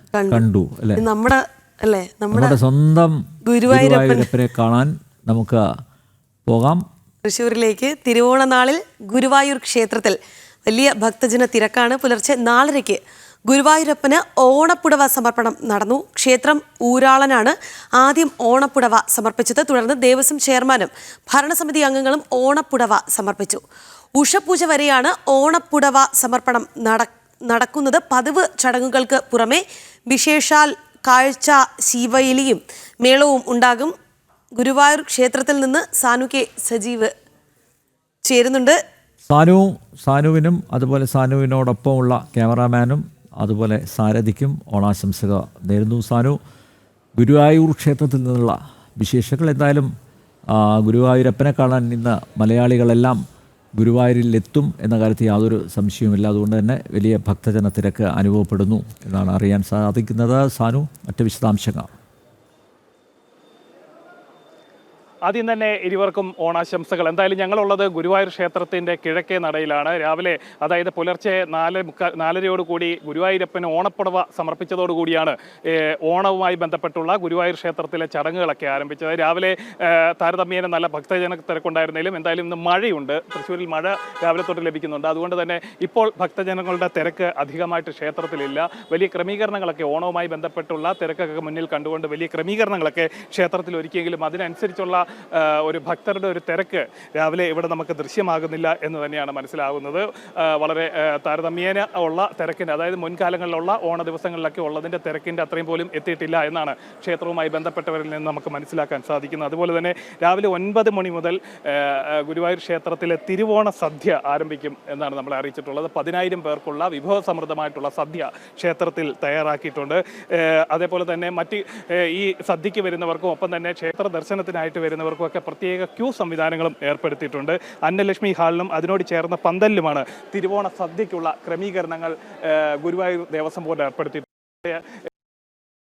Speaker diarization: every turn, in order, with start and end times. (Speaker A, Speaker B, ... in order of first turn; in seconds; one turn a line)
Speaker A: 0.1-0.4
Speaker B: 0.3-1.0
Speaker A: 1.0-2.5
Speaker B: 2.3-5.6
Speaker A: 3.4-4.3
Speaker B: 6.5-6.8
Speaker A: 7.2-23.6
Speaker A: 24.1-33.9
Speaker A: 34.5-37.1
Speaker A: 38.2-38.8
Speaker B: 39.3-46.4
Speaker B: 47.2-49.9
Speaker B: 50.5-53.2
Speaker B: 53.8-61.9
Speaker C: 65.2-135.0